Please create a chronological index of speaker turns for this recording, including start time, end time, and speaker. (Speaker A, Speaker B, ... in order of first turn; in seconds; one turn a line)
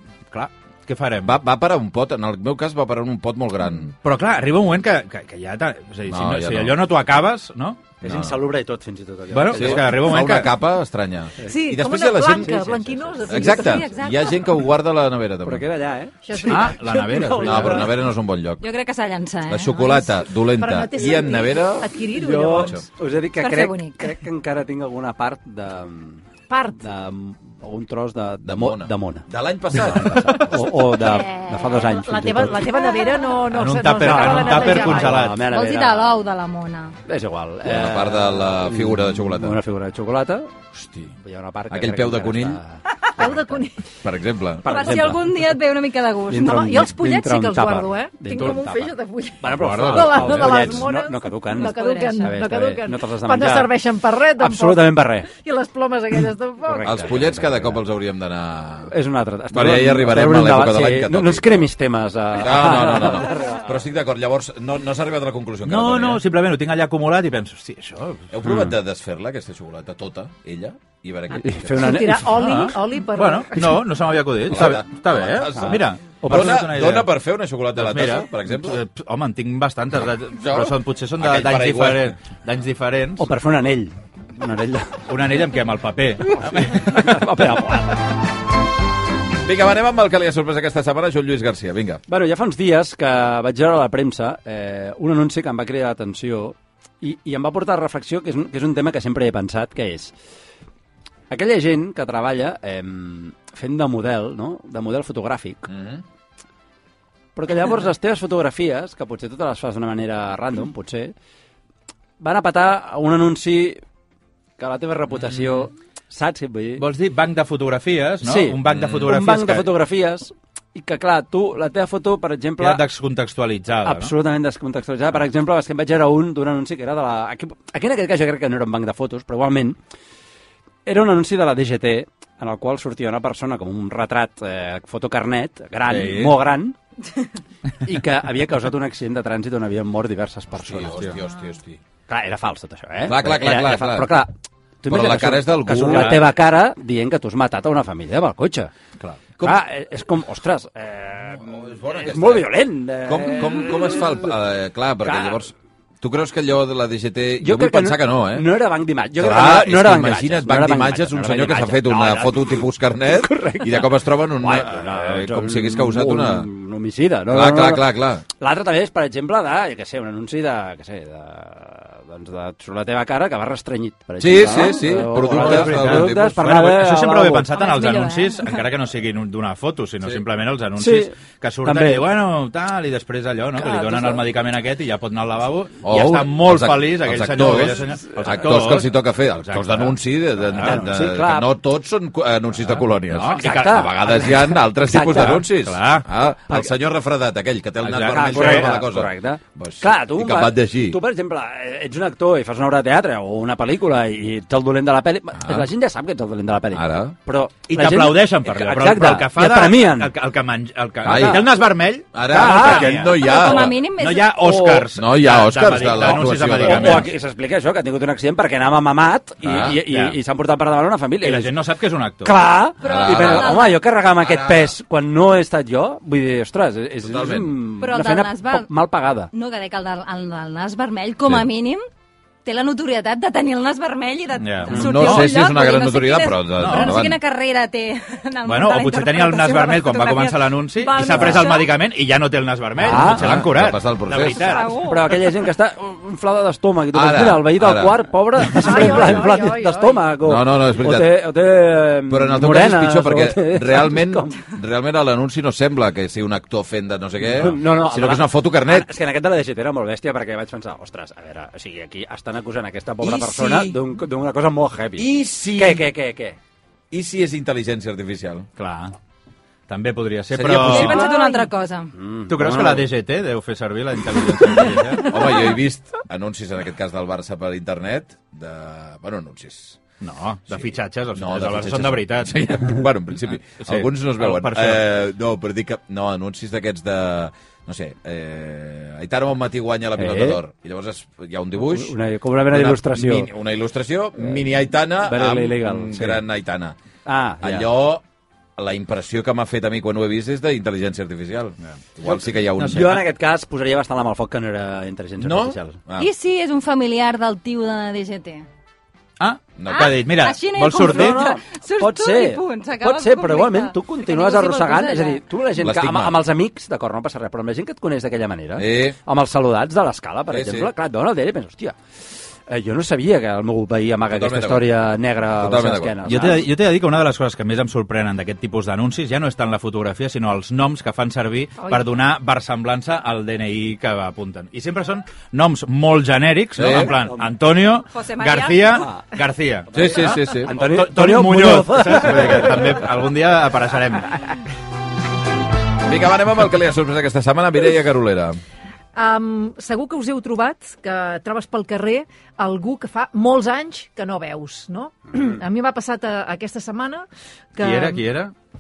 Speaker A: 0.3-1.3
Speaker B: 1.2-3.9
Speaker A: 3.9-8.0
Speaker B: 6.1-6.8
Speaker C: 8.0-10.1
Speaker B: 8.0-8.4
Speaker A: 9.3-10.5
Speaker B: 9.5-12.6
Speaker D: 11.5-13.9
Speaker C: 12.3-13.6
Speaker B: 13.3-15.7
Speaker E: 13.4-14.5
Speaker C: 15.4-18.0
Speaker D: 16.2-17.5
Speaker A: 16.5-17.9
Speaker B: 17.4-18.6
Speaker E: 18.6-20.0
Speaker B: 19.5-22.9
Speaker D: 20.6-22.8
Speaker C: 22.1-26.2
Speaker E: 23.4-24.2
Speaker D: 26.5-26.8
Speaker C: 26.8-32.8
Speaker B: 28.4-30.7
Speaker A: 30.1-30.6
Speaker E: 30.9-32.0
Speaker D: 31.9-35.2
Speaker E: 33.0-33.2
Speaker A: 33.5-35.5
Speaker C: 34.0-36.2
Speaker E: 35.4-37.0
Speaker C: 37.1-40.5
Speaker B: 37.6-39.6
Speaker C: 41.2-43.7
Speaker B: 41.7-42.6
Speaker D: 43.2-43.8
Speaker B: 44.0-44.8
Speaker C: 44.6-45.5
Speaker E: 44.6-46.7
Speaker C: 46.3-53.8
Speaker D: 46.4-57.1
Speaker B: 49.5-50.8
Speaker E: 51.5-52.4
Speaker C: 54.4-55.3
Speaker C: 56.6-57.8
Speaker B: 56.8-58.9
Speaker C: 58.9-63.7
Speaker B: 59.5-61.7
Speaker B: 62.3-66.2
Speaker A: 65.7-68.7
Speaker B: 68.3-72.0
Speaker C: 71.3-72.7
Speaker D: 71.8-73.7
Speaker A: 72.4-77.1
Speaker B: 74.5-78.8
Speaker C: 75.5-76.6
Speaker A: 77.8-83.3
Speaker B: 80.3-82.2
Speaker C: 83.2-85.0
Speaker A: 85.1-87.2
Speaker C: 86.3-88.0
Speaker B: 89.4-92.0
Speaker C: 92.1-100.1
Speaker C: 101.3-105.7
Speaker B: 105.7-106.0
Speaker C: 107.3-111.1
Speaker C: 112.2-113.8
Speaker C: 114.6-116.8
Speaker A: 116.8-119.7
Speaker C: 118.2-122.9
Speaker B: 118.7-119.1
Speaker A: 122.6-124.1
Speaker C: 123.8-129.8
Speaker C: 130.8-136.8
Speaker B: 135.9-136.4
Speaker C: 137.8-141.2
Speaker B: 140.5-141.8
Speaker C: 142.1-148.7
Speaker B: 143.0-144.2
Speaker B: 144.9-146.3
Speaker A: 145.8-146.2
Speaker B: 149.4-149.6
Speaker C: 149.4-154.3
Speaker B: 151.4-152.5
Speaker B: 153.0-158.5
Speaker C: 155.0-155.4
Speaker C: 157.4-177.5
Speaker B: 159.2-166.5
Speaker B: 167.3-168.2
Speaker B: 174.2-176.4
Speaker A: 174.9-190.0
Speaker E: 177.5-178.6
Speaker C: 180.8-182.1
Speaker C: 183.6-184.3
Speaker B: 185.8-201.0
Speaker C: 187.9-188.4
Speaker A: 190.5-191.2
Speaker C: 190.6-191.5
Speaker A: 193.1-194.4
Speaker C: 193.2-195.5
Speaker A: 195.1-196.1
Speaker A: 197.9-198.8
Speaker C: 198.0-210.2
Speaker B: 205.4-205.7
Speaker B: 206.7-207.2
Speaker A: 207.7-217.1
Speaker B: 211.0-211.4
Speaker C: 211.1-211.5
Speaker B: 212.1-213.8
Speaker C: 212.2-213.7
Speaker E: 213.0-214.4
Speaker C: 214.4-214.9
Speaker B: 214.9-217.1
Speaker C: 215.8-221.6
Speaker B: 219.4-219.8
Speaker A: 219.5-220.2
Speaker A: 221.2-222.4
Speaker C: 222.2-229.3
Speaker E: 222.8-223.8
Speaker B: 222.8-224.8
Speaker B: 227.0-227.7
Speaker E: 227.8-228.7
Speaker E: 229.3-231.8
Speaker E: 232.4-241.7
Speaker A: 234.4-235.3
Speaker B: 234.7-237.2
Speaker A: 236.6-237.0
Speaker A: 238.4-244.9
Speaker C: 241.0-241.5
Speaker C: 242.8-243.4
Speaker B: 242.8-244.4
Speaker E: 244.2-245.4
Speaker C: 244.8-254.4
Speaker B: 246.9-249.3
Speaker D: 248.6-250.0
Speaker B: 250.2-251.2
Speaker B: 252.1-258.9
Speaker C: 257.2-266.4
Speaker B: 263.0-263.8
Speaker B: 265.0-265.9
Speaker B: 266.9-268.5
Speaker A: 268.6-268.9
Speaker A: 269.7-271.1
Speaker B: 270.3-271.0
Speaker E: 270.6-271.9
Speaker D: 270.9-271.4
Speaker C: 271.9-272.9
Speaker A: 272.3-275.2
Speaker B: 275.0-279.8
Speaker A: 280.0-282.6
Speaker B: 281.1-291.9
Speaker A: 283.6-284.8
Speaker C: 290.0-290.4
Speaker C: 291.6-293.3
Speaker B: 292.5-296.8
Speaker C: 294.2-294.4
Speaker C: 295.0-296.2
Speaker C: 297.1-297.7
Speaker B: 297.4-298.0
Speaker B: 298.6-303.0
Speaker A: 302.6-303.0
Speaker C: 302.7-305.8
Speaker B: 305.2-306.1
Speaker E: 306.0-308.4
Speaker A: 309.2-311.3
Speaker B: 309.6-310.1
Speaker E: 309.7-315.2
Speaker C: 310.7-321.8
Speaker B: 315.6-316.2
Speaker B: 318.6-319.0
Speaker B: 320.3-320.7
Speaker C: 322.5-326.5
Speaker B: 324.1-326.2
Speaker A: 326.1-344.2
Speaker B: 336.6-337.0
Speaker C: 336.8-337.4
Speaker E: 337.9-338.9
Speaker C: 338.7-339.1
Speaker C: 339.7-342.9
Speaker B: 339.7-340.5
Speaker B: 345.9-348.4
Speaker D: 348.9-358.1
Speaker A: 357.6-358.3